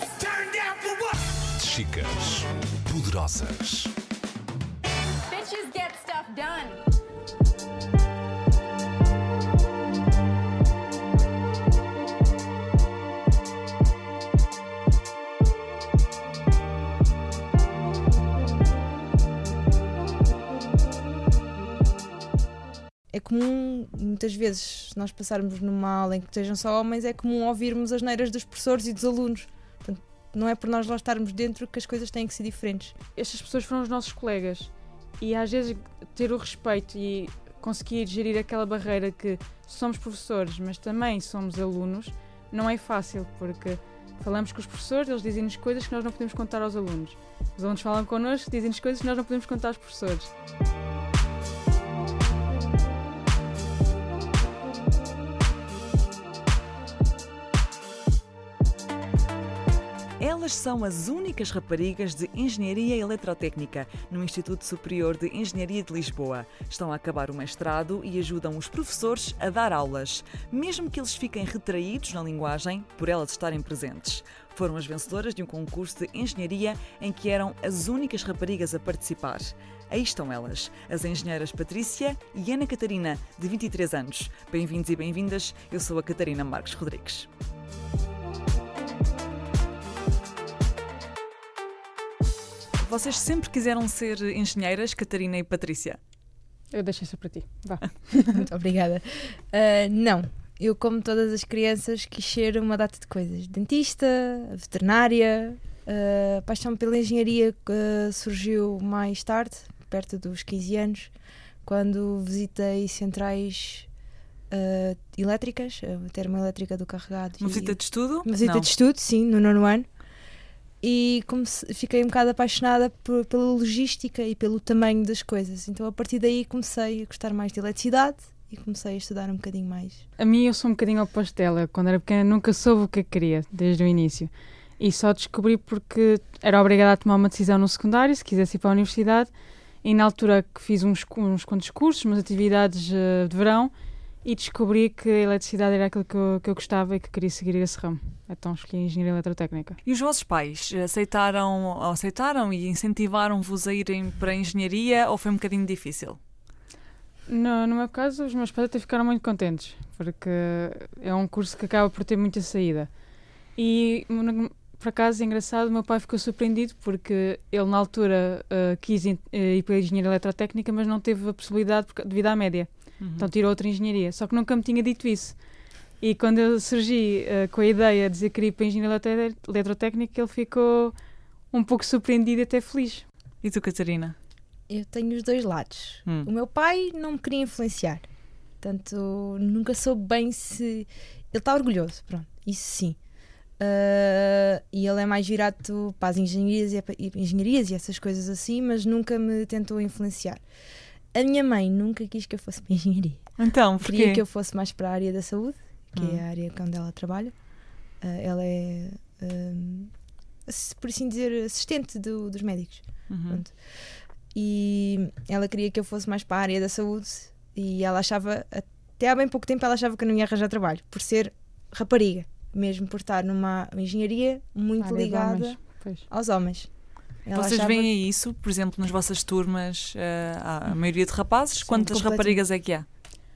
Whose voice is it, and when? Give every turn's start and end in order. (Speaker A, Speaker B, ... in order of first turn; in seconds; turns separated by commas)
Speaker A: 0.2-1.4, Speaker B: 1.6-3.9, Speaker A: 5.3-6.8, Speaker C: 23.1-33.0, Speaker D: 33.1-50.3, Speaker E: 60.2-87.3, Speaker E: 92.8-96.0, Speaker D: 96.7-98.4, Speaker C: 98.3-111.1, Speaker C: 111.6-113.9, Speaker C: 114.5-119.9, Speaker E: 117.4-118.7, Speaker C: 120.8-130.0, Speaker D: 130.2-139.3, Speaker D: 139.8-149.8, Speaker E: 149.8-156.2, Speaker D: 157.3-162.9, Speaker D: 163.6-175.4, Speaker E: 173.0-173.3, Speaker D: 176.0-181.0, Speaker D: 181.5-183.1, Speaker E: 183.4-184.2, Speaker C: 184.7-188.1, Speaker C: 188.6-193.0, Speaker C: 193.6-200.4, Speaker C: 201.1-207.3, Speaker E: 203.4-204.2, Speaker E: 206.0-206.2, Speaker C: 208.0-209.9, Speaker C: 210.5-226.7, Speaker E: 213.1-213.4, Speaker D: 224.8-226.1, Speaker C: 227.2-227.9, Speaker E: 227.3-232.9, Speaker D: 231.7-231.9, Speaker C: 231.9-232.4